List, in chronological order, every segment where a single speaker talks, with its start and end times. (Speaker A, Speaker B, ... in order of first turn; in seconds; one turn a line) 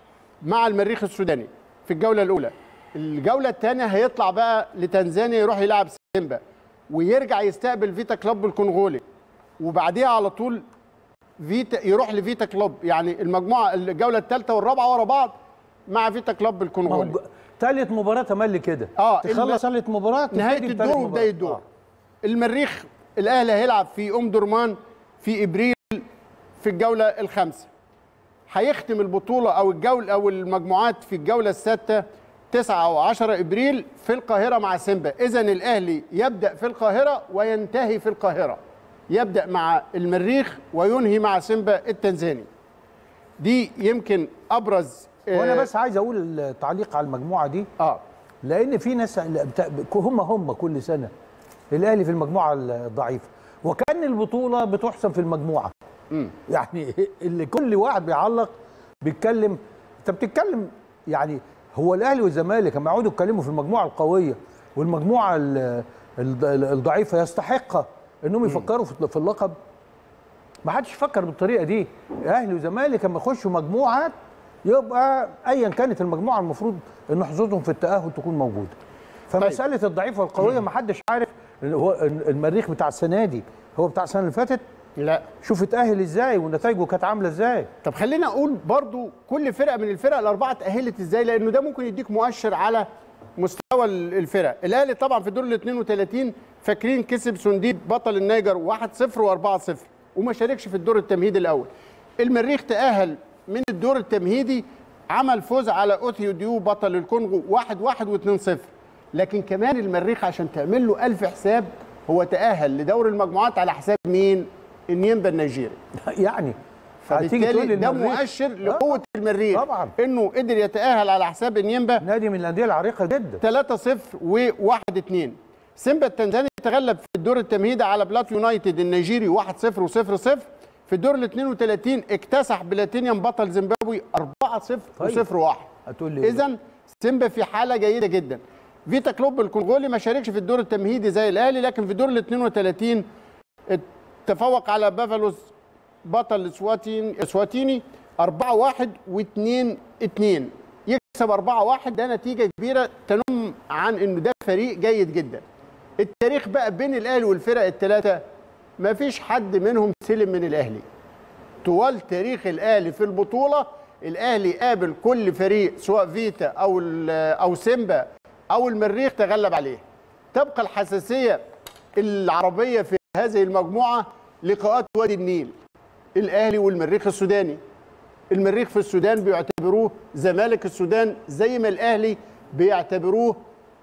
Speaker A: 0.4-9.0
Speaker A: 9.6-10.6
Speaker A: 11.4-15.3
Speaker A: 15.9-17.2
Speaker B: 16.9-21.6
Speaker A: 19.0-19.6
Speaker A: 20.3-21.6
Speaker A: 22.2-26.1
Speaker A: 26.6-27.7
Speaker A: 28.5-38.6
Speaker A: 39.1-42.5
Speaker A: 43.4-45.7
Speaker B: 45.3-47.7
Speaker B: 48.4-51.1
Speaker B: 51.7-55.7
Speaker B: 56.5-69.5
Speaker B: 70.6-74.1
Speaker B: 74.6-78.8
Speaker B: 79.3-84.6
Speaker A: 85.0-85.3
Speaker B: 85.4-87.7
Speaker A: 87.8-115.8
Speaker B: 116.0-119.0
Speaker A: 117.1-122.0
Speaker B: 119.5-119.9
Speaker B: 122.0-123.4
Speaker A: 123.4-135.7
Speaker B: 135.0-135.2
Speaker B: 135.8-136.4
Speaker A: 136.2-143.0
Speaker A: 143.7-145.5
Speaker A: 146.0-155.4
Speaker A: 156.0-158.2
Speaker A: 158.8-160.8
Speaker A: 161.6-171.4
Speaker A: 172.0-175.5
Speaker A: 176.2-177.6
Speaker A: 178.3-183.4